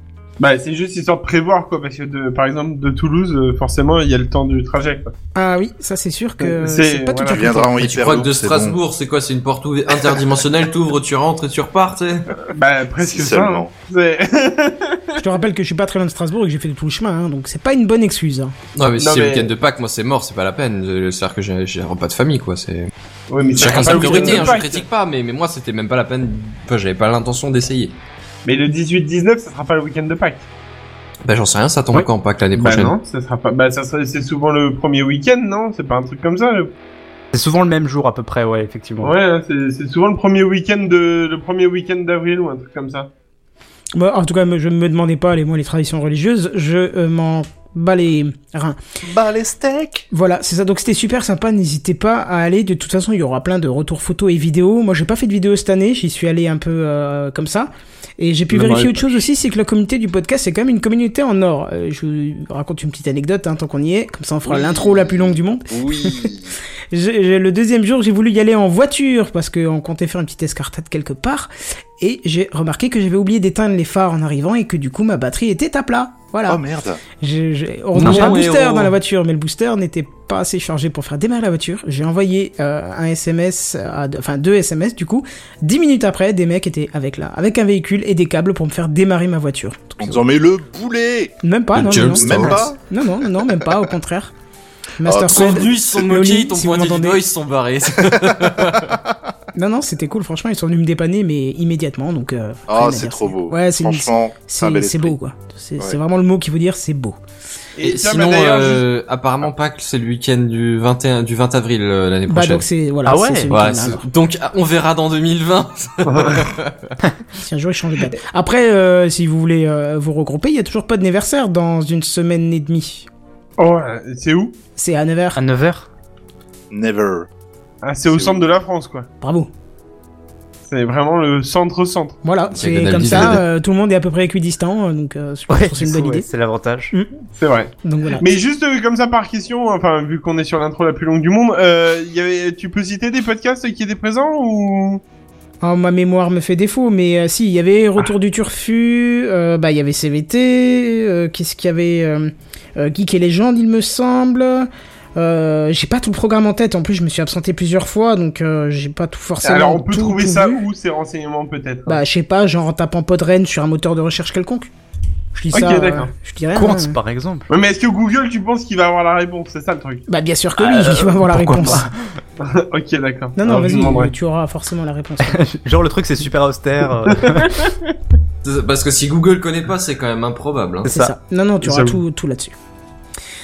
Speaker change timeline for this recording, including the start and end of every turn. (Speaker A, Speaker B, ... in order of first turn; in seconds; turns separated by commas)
Speaker A: 0.4-5.1, Speaker B: 5.3-7.9, Speaker A: 6.4-7.5, Speaker C: 7.3-8.8, Speaker D: 7.8-12.4, Speaker A: 12.4-15.2, Speaker C: 13.0-13.7, Speaker B: 15.2-18.5, Speaker D: 18.8-22.9, Speaker A: 19.0-19.5, Speaker A: 23.3-24.8, Speaker D: 23.5-27.9, Speaker E: 23.5-24.5, Speaker A: 28.4-30.4, Speaker D: 31.2-32.9, Speaker A: 32.5-36.7, Speaker E: 37.3-39.1, Speaker A: 39.0-43.1, Speaker B: 43.9-48.8, Speaker C: 49.0-50.1, Speaker B: 50.1-66.3, Speaker C: 58.5-59.2, Speaker C: 64.4-66.5, Speaker B: 66.9-76.6, Speaker C: 76.5-77.0, Speaker B: 77.1-90.2, Speaker E: 77.9-78.4, Speaker D: 78.0-78.9, Speaker C: 90.0-92.8, Speaker B: 91.4-94.3, Speaker D: 91.7-92.7, Speaker B: 95.0-97.2, Speaker C: 95.0-95.8, Speaker D: 95.3-98.9, Speaker C: 98.5-98.9, Speaker B: 99.5-107.2, Speaker C: 102.7-105.1, Speaker A: 107.8-108.8, Speaker D: 107.8-112.7, Speaker B: 112.3-114.1, Speaker E: 113.0-113.8, Speaker D: 113.5-116.9, Speaker A: 116.1-116.4, Speaker B: 117.3-123.1, Speaker A: 123.6-124.5, Speaker B: 124.8-125.4, Speaker E: 125.3-125.9, Speaker C: 126.7-127.3, Speaker A: 127.8-129.1, Speaker C: 128.0-128.5, Speaker B: 129.2-129.5, Speaker A: 130.6-132.2, Speaker B: 132.2-136.3, Speaker D: 132.5-133.4, Speaker E: 135.5-136.9, Speaker A: 137.4-145.0, Speaker B: 137.8-138.2, Speaker B: 145.6-160.6, Speaker A: 159.4-162.0, Speaker B: 161.8-164.7, Speaker B: 165.3-167.0, Speaker A: 165.5-166.1, Speaker E: 166.5-167.5, Speaker A: 167.5-170.0, Speaker B: 170.1-171.9, Speaker E: 171.2-171.9, Speaker A: 172.4-174.1, Speaker B: 173.4-175.4, Speaker E: 175.2-177.6, Speaker A: 177.2-177.9, Speaker D: 178.4-180.9, Speaker E: 180.8-182.0, Speaker B: 180.9-182.5